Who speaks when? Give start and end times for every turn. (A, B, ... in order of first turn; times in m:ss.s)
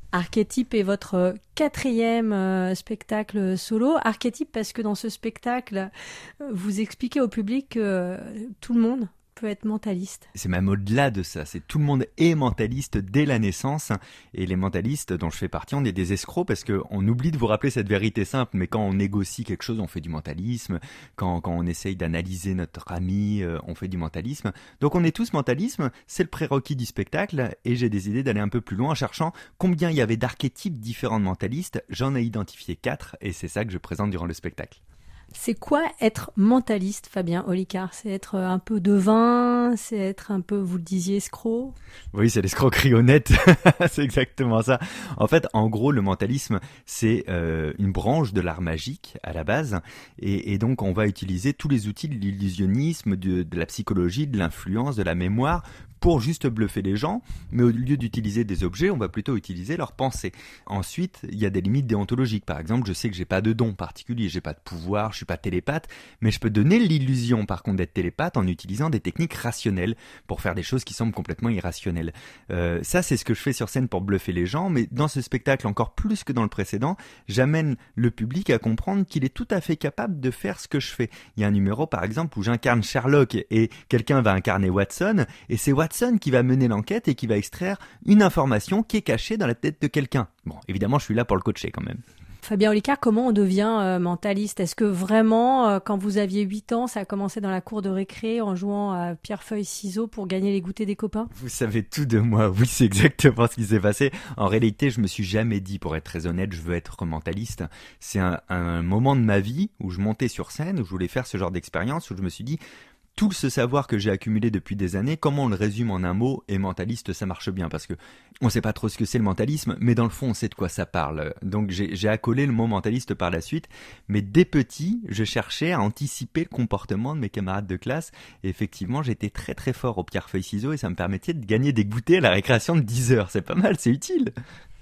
0:00.1-0:05.9 A
0:06.4-0:10.3 A
0:10.3-0:34.8 B
0:35.3-0:41.8 A
0:42.1-1:32.0 B
1:32.4-1:41.3 A
1:41.3-1:52.6 B
1:53.2-2:14.3 B